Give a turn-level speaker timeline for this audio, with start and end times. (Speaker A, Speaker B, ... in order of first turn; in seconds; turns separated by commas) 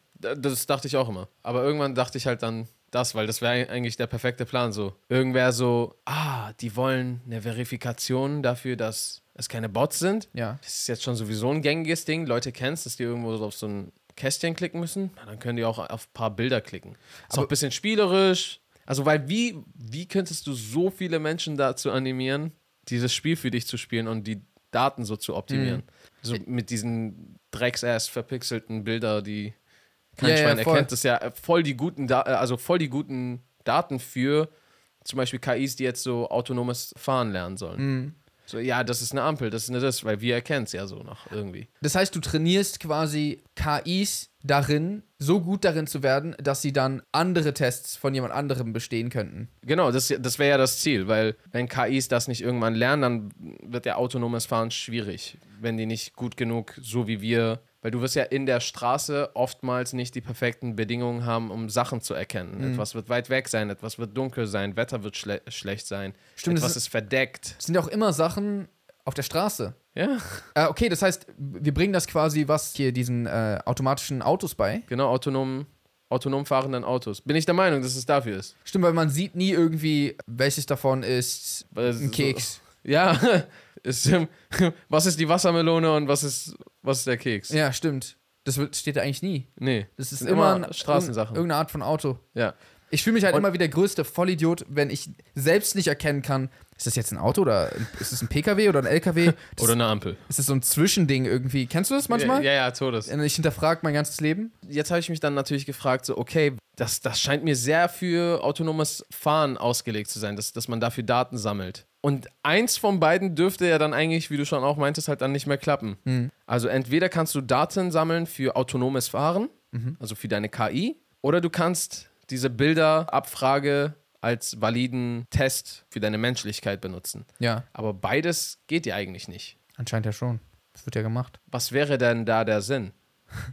Speaker A: 0.2-29.6, Speaker B: 10.3-10.6, Speaker B: 25.5-25.8, Speaker A: 30.2-34.5, Speaker B: 30.2-30.9, Speaker A: 35.0-37.9, Speaker B: 37.8-38.1, Speaker A: 38.5-41.7, Speaker B: 41.8-49.5, Speaker A: 49.6-67.6, Speaker B: 62.6-62.9, Speaker B: 66.4-66.8, Speaker B: 67.6-69.8, Speaker A: 70.0-70.5, Speaker B: 70.5-74.9, Speaker A: 74.9-78.5, Speaker B: 78.7-82.6, Speaker A: 81.7-87.6, Speaker B: 87.5-92.2, Speaker A: 89.6-91.4, Speaker B: 92.9-99.8, Speaker A: 99.4-100.2, Speaker B: 100.3-102.5, Speaker A: 102.1-103.1, Speaker B: 103.1-104.5, Speaker A: 104.6-129.6, Speaker B: 116.1-116.3, Speaker B: 119.7-120.0, Speaker B: 127.4-127.7, Speaker B: 129.8-131.4, Speaker A: 131.5-132.9